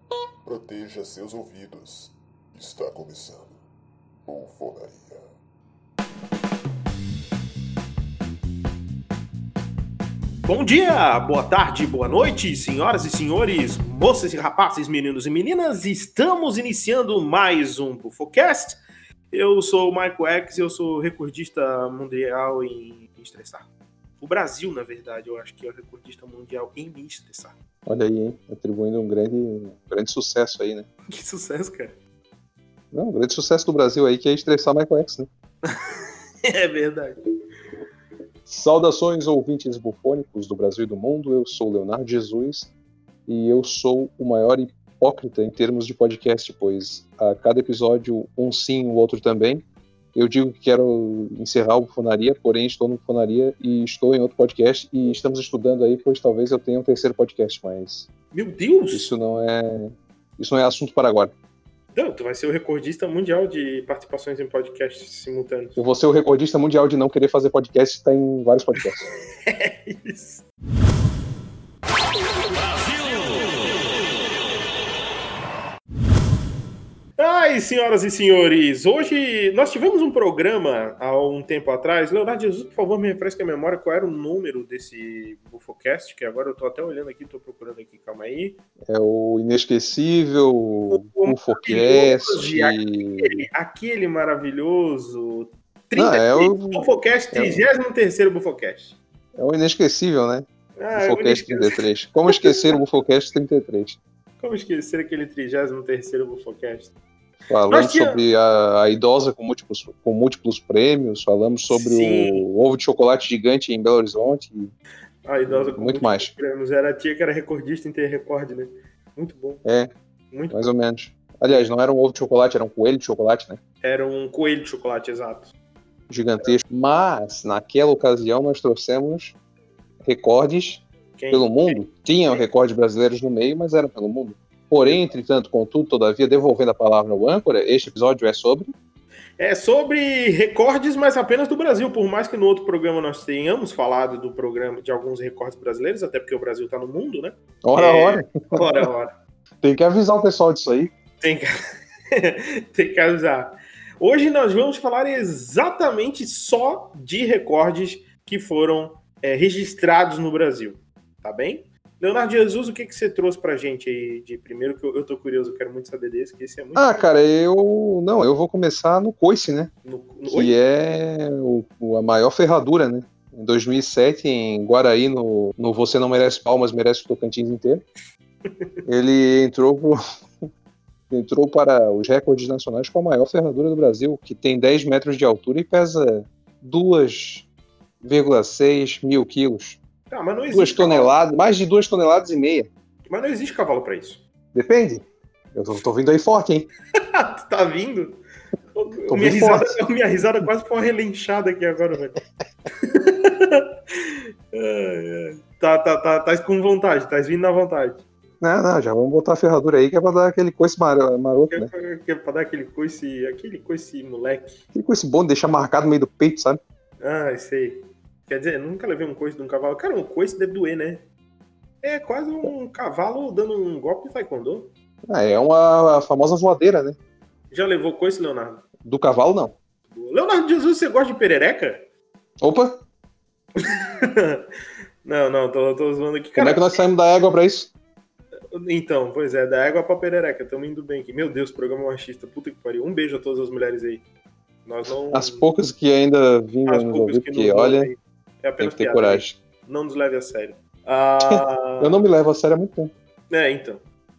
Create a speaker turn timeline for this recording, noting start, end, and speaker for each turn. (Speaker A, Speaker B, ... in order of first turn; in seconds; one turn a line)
Speaker A: 0.5-3.6
Speaker A: 4.2-5.2
Speaker B: 10.4-18.8
Speaker B: 19.3-27.6
Speaker C: 27.9-30.9
Speaker B: 31.1-32.0
Speaker C: 32.9-35.3
Speaker B: 35.7-37.1
Speaker C: 38.5-42.7
Speaker C: 43.3-49.6
Speaker C: 50.1-58.1
Speaker B: 58.3-59.1
Speaker C: 58.9-61.3
Speaker B: 61.9-65.8
Speaker C: 65.8-69.0
Speaker B: 69.5-70.4
Speaker B: 77.2-88.6
Speaker C: 88.9-93.4
Speaker B: 90.9-99.0
Speaker C: 95.9-97.6
Speaker C: 99.3-104.0
Speaker B: 100.8-102.8
Speaker B: 104.4-106.9
Speaker C: 107.5-114.7
Speaker B: 107.7-108.2
Speaker B: 111.7-112.5
Speaker B: 115.2-119.7
Speaker C: 115.5-116.3
Speaker C: 119.6-119.9
Speaker B: 120.3-120.7
Speaker C: 120.5-123.6
Speaker B: 121.5-121.7
Speaker B: 123.8-125.5
Speaker C: 126.1-129.3
Speaker C: 130.0-138.7
Speaker B: 131.1-132.4
Speaker B: 134.8-135.1
Speaker B: 139.4-149.1
Speaker C: 147.6-148.8
Speaker C: 149.6-150.9
Speaker B: 151.2-151.5
Speaker B: 152.1-167.1
Speaker C: 166.8-169.7
Speaker B: 169.8-170.6
Speaker C: 170.3-177.8
Speaker C: 178.8-180.0
Speaker C: 181.1-187.5
Speaker C: 188.0-189.8
Speaker B: 190.1-191.1
Speaker C: 190.5-192.7
Speaker B: 193.1-194.2
Speaker C: 194.5-196.7
Speaker B: 197.2-198.2
Speaker B: 198.7-202.2
Speaker C: 199.1-199.8
Speaker B: 202.8-208.0
Speaker C: 208.4-211.7
Speaker B: 211.5-214.6
Speaker C: 214.7-216.6
Speaker B: 217.0-221.1
Speaker B: 221.8-224.7
Speaker C: 225.1-227.0
Speaker B: 227.5-228.6
Speaker C: 228.8-229.6
Speaker B: 229.8-231.8
Speaker C: 232.4-232.8
Speaker B: 233.6-234.4
Speaker B: 235.0-236.8
Speaker C: 236.4-237.7
Speaker B: 238.5-244.0
Speaker B: 244.6-245.5
Speaker C: 245.1-247.9
Speaker B: 246.7-252.0
Speaker C: 248.6-249.3
Speaker C: 251.2-252.9
Speaker B: 253.3-253.8